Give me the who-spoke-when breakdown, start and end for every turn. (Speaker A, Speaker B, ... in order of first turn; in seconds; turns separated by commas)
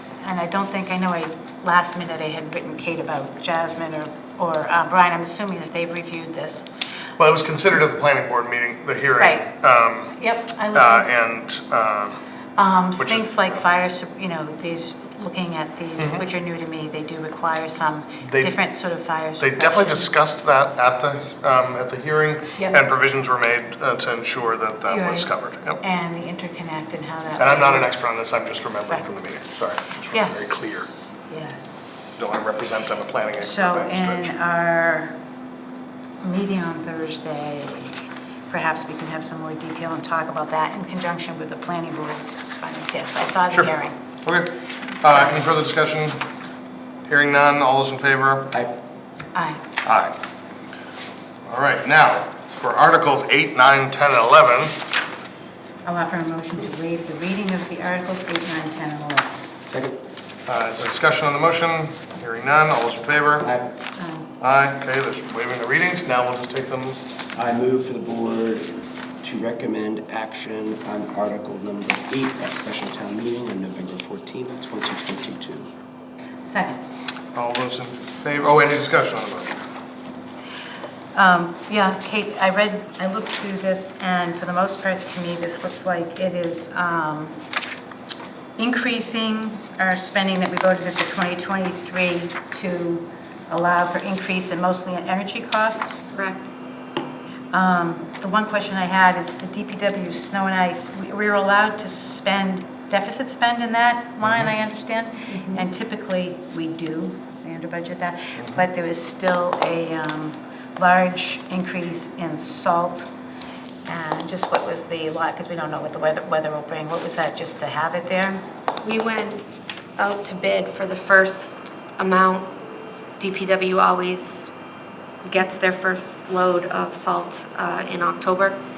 Speaker A: 0.2-6.7, Speaker B: 7.2-10.1, Speaker A: 9.2-9.4, Speaker A: 10.1-11.1, Speaker B: 10.7-12.2, Speaker A: 12.6-20.1, Speaker B: 13.0-13.6, Speaker B: 16.0-16.2, Speaker B: 18.2-18.5, Speaker B: 19.4-25.8, Speaker A: 24.9-25.3, Speaker A: 25.8-27.9, Speaker B: 27.4-30.9, Speaker A: 30.1-32.2, Speaker B: 32.2-34.3, Speaker A: 33.4-35.1, Speaker A: 36.2-38.0, Speaker A: 38.5-44.0, Speaker B: 44.2-46.2, Speaker B: 47.1-48.5, Speaker A: 49.3-49.6, Speaker B: 49.8-50.1, Speaker B: 51.5-54.8, Speaker A: 55.8-59.4, Speaker C: 59.6-60.0, Speaker B: 60.5-63.5, Speaker C: 63.4-63.7, Speaker A: 64.0-64.3, Speaker B: 64.4-67.0, Speaker C: 67.3-75.7, Speaker A: 76.4-76.8, Speaker B: 77.3-79.6, Speaker A: 81.1-87.4, Speaker A: 88.6-96.0, Speaker D: 96.1-96.5, Speaker A: 97.5-113.1, Speaker B: 104.2-104.5, Speaker D: 105.3-105.6, Speaker B: 108.4-108.6, Speaker A: 113.8-118.4, Speaker D: 118.8-119.4, Speaker D: 120.0-122.5, Speaker D: 123.2-124.5, Speaker D: 125.2-128.6